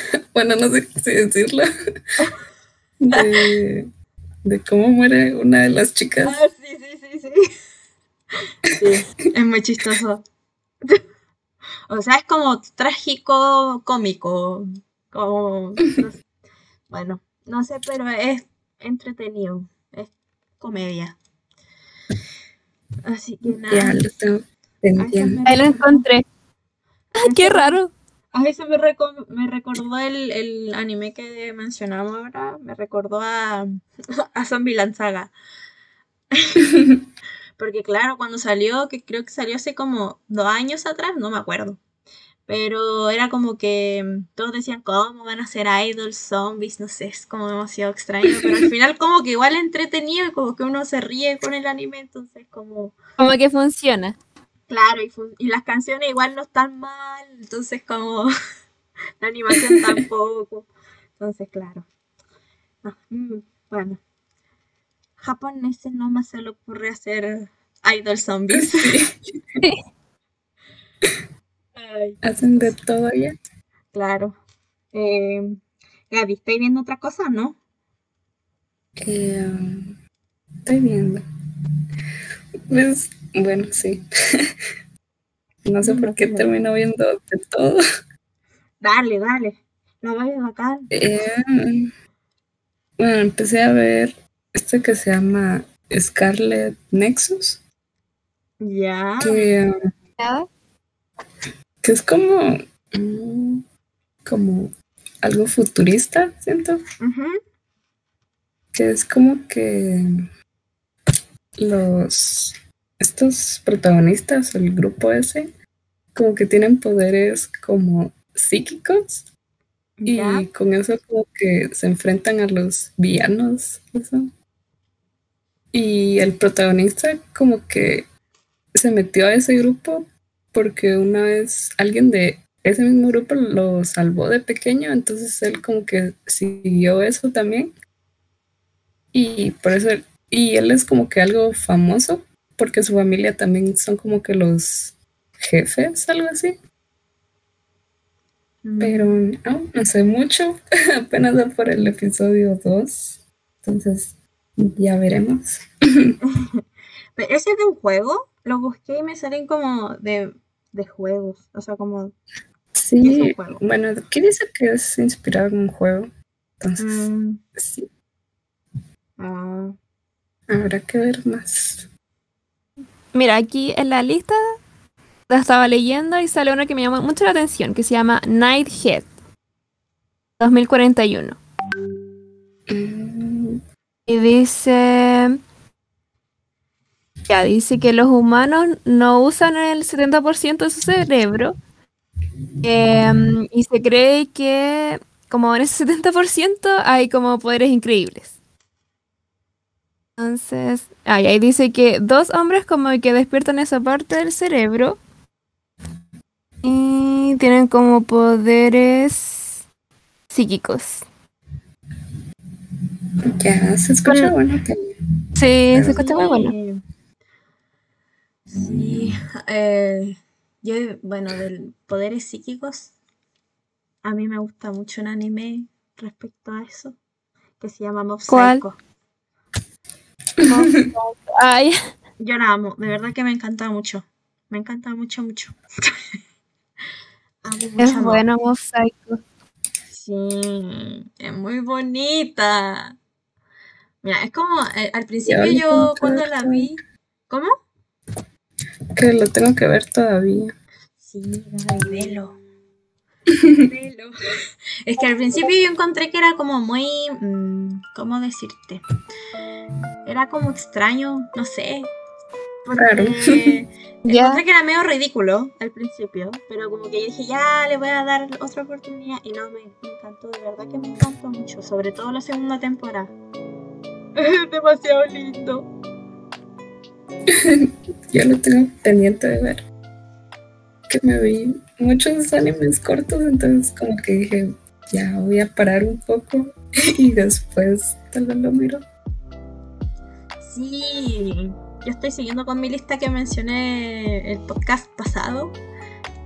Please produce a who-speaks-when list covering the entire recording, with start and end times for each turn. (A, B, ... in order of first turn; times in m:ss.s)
0:00.3-0:01.7 A
0:03.0-0:03.9 A
0:04.4-0:06.4 A
0:06.2-0:07.4 B
0:08.6-0:10.2 B
0:11.9-0:16.2 B
0:16.9-0:21.2 B
0:23.0-0:24.0 B
0:23.5-0:25.4 A
0:25.0-0:26.1 B
0:25.5-0:26.2 C
0:27.2-0:27.9 C
0:27.2-0:27.8 B
0:28.3-0:35.3 B
0:36.3-0:36.7 B
0:37.6-0:41.8 B
0:42.5-0:53.0 B
0:48.3-0:48.6 A
0:53.2-0:54.2 C
0:54.7-0:58.3 B
0:59.2-1:01.8 B
1:02.8-1:04.0 B
1:05.2-1:09.0 B
1:08.5-1:09.4 A
1:11.8-1:12.8 B
1:12.2-1:13.4 A
1:13.9-1:14.4 B
1:14.9-1:15.6 B
1:16.1-1:17.6 B
1:19.0-1:20.0 A
1:20.6-1:21.2 A
1:22.7-1:24.0 A
1:25.6-1:27.8 A
1:25.8-1:26.5 B
1:28.8-1:30.9 B
1:30.9-1:31.9 A
1:33.0-1:37.6 A
1:38.6-1:39.5 B
1:39.2-1:39.7 A
1:40.2-1:40.5 C
1:41.8-1:43.6 A
1:44.2-1:46.8 A
1:47.0-1:47.4 B
1:48.7-1:50.1 A
1:51.6-1:55.5 A
1:56.1-1:59.3 A
2:00.0-2:00.5 B
2:00.1-2:04.3 A
2:05.7-2:08.1 A
2:08.8-2:17.7 A
2:19.1-2:26.6 A
2:28.6-2:29.2 B
2:28.8-2:36.2 A
2:36.2-2:36.6 B
2:37.2-2:42.2 B
2:42.7-2:47.9 A
2:43.0-2:43.6 B
2:46.8-2:47.4 B
2:49.2-2:49.8 B
2:50.5-2:51.9 A
2:53.1-2:54.4 C
2:55.3-2:59.1 C
3:00.4-3:01.4 C
3:02.7-3:03.6 A
3:04.1-3:05.4 C
3:07.3-3:11.6 C
3:12.6-3:18.3 C
3:20.2-3:25.0 C
3:26.6-3:29.6 C
3:30.3-3:31.0 C
3:33.3-3:34.9 A
3:34.1-3:34.3 C
3:35.4-3:36.5 C
3:35.7-3:36.0 A
3:35.8-3:36.8 B
3:38.5-3:42.9 B
3:44.0-3:47.0 B
3:47.6-3:48.8 B
3:48.3-3:48.6 C
3:50.4-3:50.8 A
3:50.4-3:51.8 C
3:52.2-3:55.9 B
3:57.4-3:58.3 B
3:57.8-3:59.2 C
3:59.9-4:03.0 B
4:04.0-4:07.5 B
4:05.3-4:06.7 A
4:09.0-4:10.6 A
4:11.0-4:12.4 B
4:13.6-4:14.1 B
4:14.8-4:18.8 B
4:20.1-4:21.9 B
4:22.6-4:33.1 B
4:22.8-4:23.6 A
4:24.1-4:24.4 C
4:34.2-4:35.7 B
4:37.4-4:39.6 A
4:40.9-4:48.8 A
4:50.4-4:55.6 B